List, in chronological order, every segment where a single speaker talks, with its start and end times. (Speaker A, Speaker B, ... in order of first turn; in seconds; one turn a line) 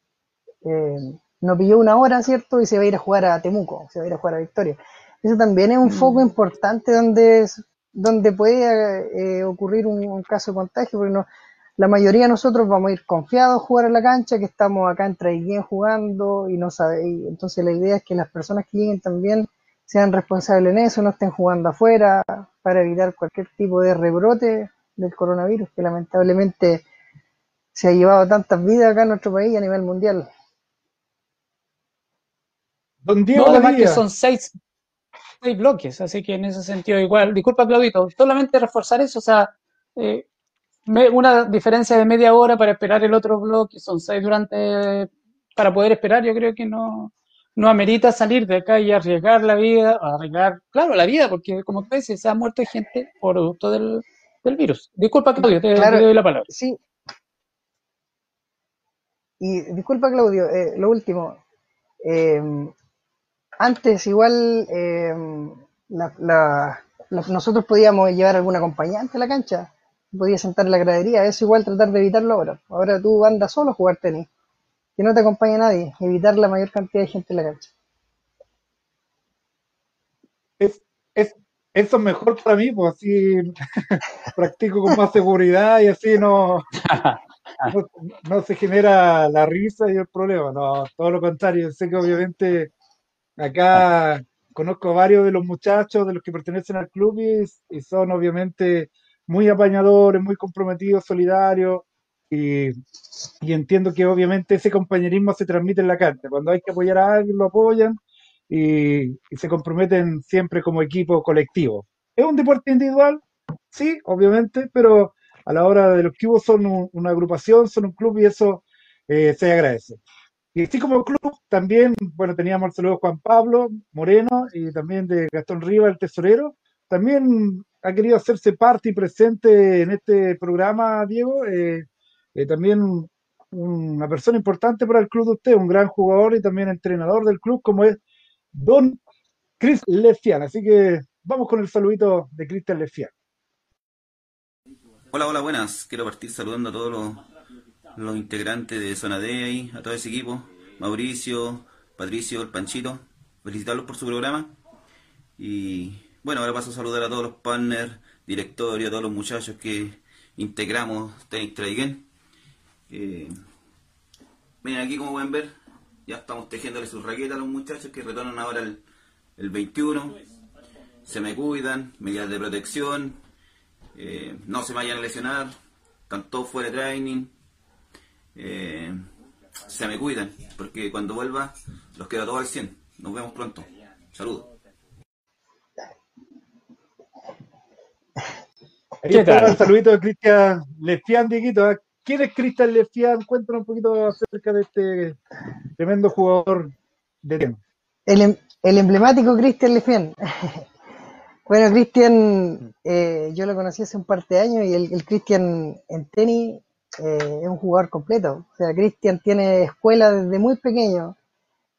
Speaker A: 0.7-11.3
Speaker B: 5.9-6.2
Speaker A: 11.8-26.9
Speaker A: 27.8-30.3
Speaker C: 33.0-34.0
Speaker B: 33.4-34.5
Speaker B: 35.4-40.2
Speaker B: 40.9-56.5
Speaker A: 55.4-56.8
Speaker A: 59.4-61.4
Speaker A: 62.0-62.7
Speaker A: 63.6-74.3
Speaker A: 75.0-77.7
Speaker C: 80.6-86.7
Speaker B: 86.8-87.7
Speaker C: 87.7-92.7
Speaker C: 93.4-102.7
Speaker C: 103.4-108.0
Speaker C: 108.5-113.2
Speaker C: 113.7-120.0
Speaker C: 120.5-138.0
Speaker C: 138.5-139.0
Speaker C: 139.6-143.1
Speaker D: 145.1-147.2
Speaker D: 147.9-154.6
Speaker D: 155.4-162.0
Speaker D: 162.9-163.4
Speaker D: 164.6-165.5
Speaker D: 166.1-168.8
Speaker D: 169.4-170.2
Speaker D: 171.1-173.2
Speaker D: 173.9-175.6
Speaker D: 176.1-177.3
Speaker D: 178.3-179.1
Speaker D: 179.7-184.5
Speaker C: 189.0-195.2
Speaker B: 189.1-189.6
Speaker C: 195.8-197.6
Speaker A: 198.1-200.7
Speaker A: 201.5-211.2